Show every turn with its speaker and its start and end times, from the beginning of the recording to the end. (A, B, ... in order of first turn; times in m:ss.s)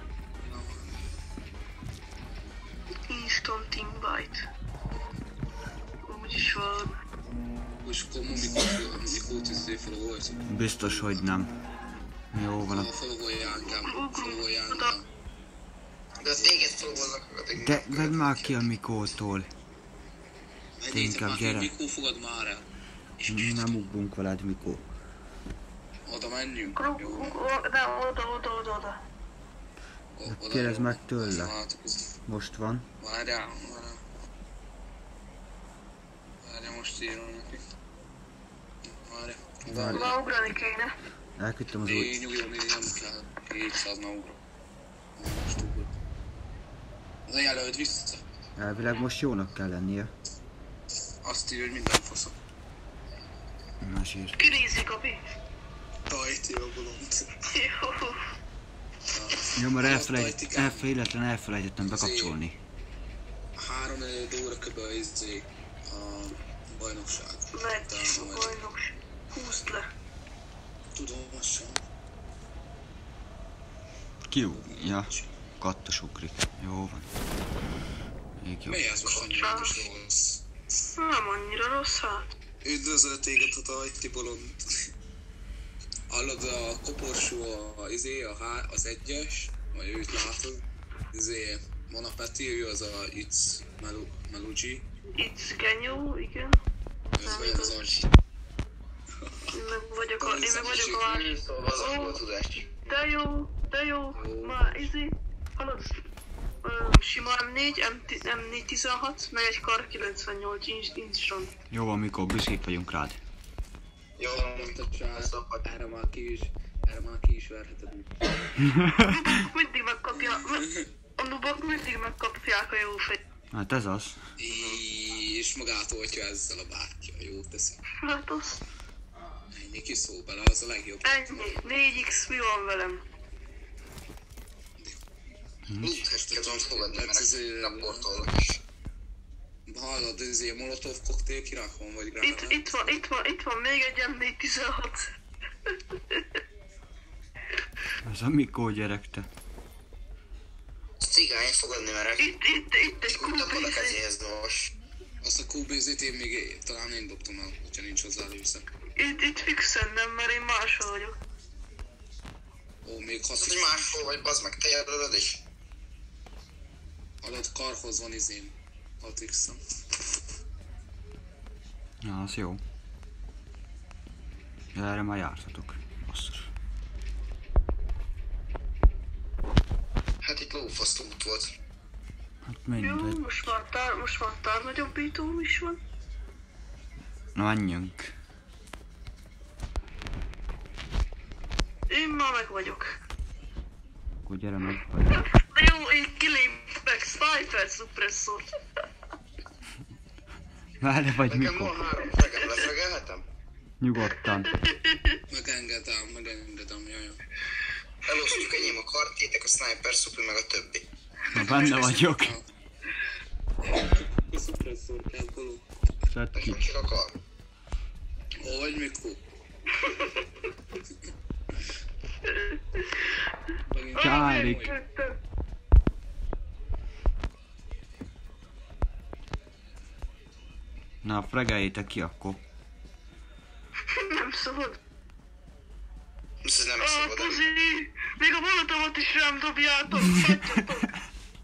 0:00.4-0:00.9 A
0:03.1-0:04.4 B
0:06.0-0:06.9 B
0:07.8-0:10.4 A
0:10.4-0:11.5 C
0:12.3-0:12.9 C
0:12.7-0:15.0 A
0:13.7-0:15.0 B
0:16.2-0:18.6 D
0:16.3-0:17.2 A
0:17.6-0:19.5 C
0:20.8-0:22.6 A
0:20.9-0:21.7 C
0:23.2-0:23.8 A
0:23.3-0:24.8 C
0:26.1-0:27.4 A
0:26.7-0:29.0 B
0:30.2-0:32.1 A
0:30.3-0:31.5 C
0:32.3-0:32.9 C
0:33.0-0:34.0 A
0:36.4-0:37.6 A
0:38.9-0:40.2 A
0:39.7-0:40.2 C
0:39.9-0:40.9 B
0:41.4-0:42.1 C
0:41.7-0:44.4 A
0:45.2-0:45.9 A
0:47.3-0:48.2 A
0:48.6-0:50.1 C
0:51.2-0:52.3 A
0:53.8-0:54.4 C
0:54.4-0:55.2 B
0:56.1-0:57.3 A
0:57.4-0:58.2 B
0:59.1-1:00.9 A
0:59.5-1:02.6 C
1:01.8-1:02.4 A
1:03.6-1:08.6 A
1:07.5-1:09.9 B
1:10.9-1:11.8 A
1:14.3-1:15.1 C
1:14.5-1:15.3 A
1:15.6-1:17.1 C
1:18.4-1:18.8 C
1:18.6-1:20.4 A
1:19.0-1:19.5 D
1:19.3-1:19.8 B
1:20.9-1:22.3 B
1:22.6-1:24.6 A
1:26.1-1:34.8 A
1:35.1-1:36.6 B
1:37.2-1:38.1 A
1:37.2-1:37.8 B
1:39.2-1:39.5 A
1:39.5-1:42.2 B
1:40.2-1:41.0 A
1:41.0-1:42.8 D
1:42.8-1:46.0 B
1:44.1-1:44.9 A
1:46.6-1:51.5 B
1:51.7-1:53.2 C
1:54.2-1:55.6 D
1:54.3-1:58.2 A
1:58.6-1:59.1 C
1:59.0-2:03.2 B
2:00.3-2:00.9 A
2:03.5-2:04.2 C
2:04.4-2:07.8 A
2:04.5-2:04.8 D
2:08.0-2:08.6 B
2:09.5-2:11.6 A
2:11.0-2:13.0 B
2:15.7-2:16.0 C
2:15.8-2:18.6 D
2:16.0-2:18.1 A
2:19.7-2:23.0 A
2:22.2-2:25.1 B
2:28.0-2:29.3 C
2:31.0-2:32.3 D
2:32.2-2:34.0 B
2:33.1-2:34.7 D
2:35.2-2:38.6 A
2:39.0-2:41.1 B
2:42.8-2:44.2 A
2:43.3-2:45.4 D
2:47.2-2:49.6 A
2:52.0-2:52.6 C
2:54.7-2:56.5 C
3:00.2-3:01.5 D
3:02.5-3:03.2 C
3:02.8-3:05.8 B
3:07.3-3:08.1 C
3:11.9-3:12.9 B
3:14.2-3:15.2 C
3:15.1-3:18.4 B
3:20.8-3:21.8 C
3:21.2-3:23.2 D
3:23.8-3:24.5 C
3:24.4-3:25.2 B
3:25.3-3:27.2 A
3:28.1-3:30.8 D
3:31.3-3:32.4 C
3:31.3-3:32.4 A
3:33.6-3:35.6 A
3:36.1-3:36.6 C
3:36.3-3:37.2 D
3:38.4-3:39.2 A
3:39.8-3:40.1 B
3:42.2-3:43.1 B
3:43.7-3:44.8 A
3:43.9-3:45.2 B
3:44.0-3:44.6 C
3:51.0-3:52.4 C
3:53.9-3:54.8 B
3:56.4-3:57.4 D
3:56.8-4:00.9 B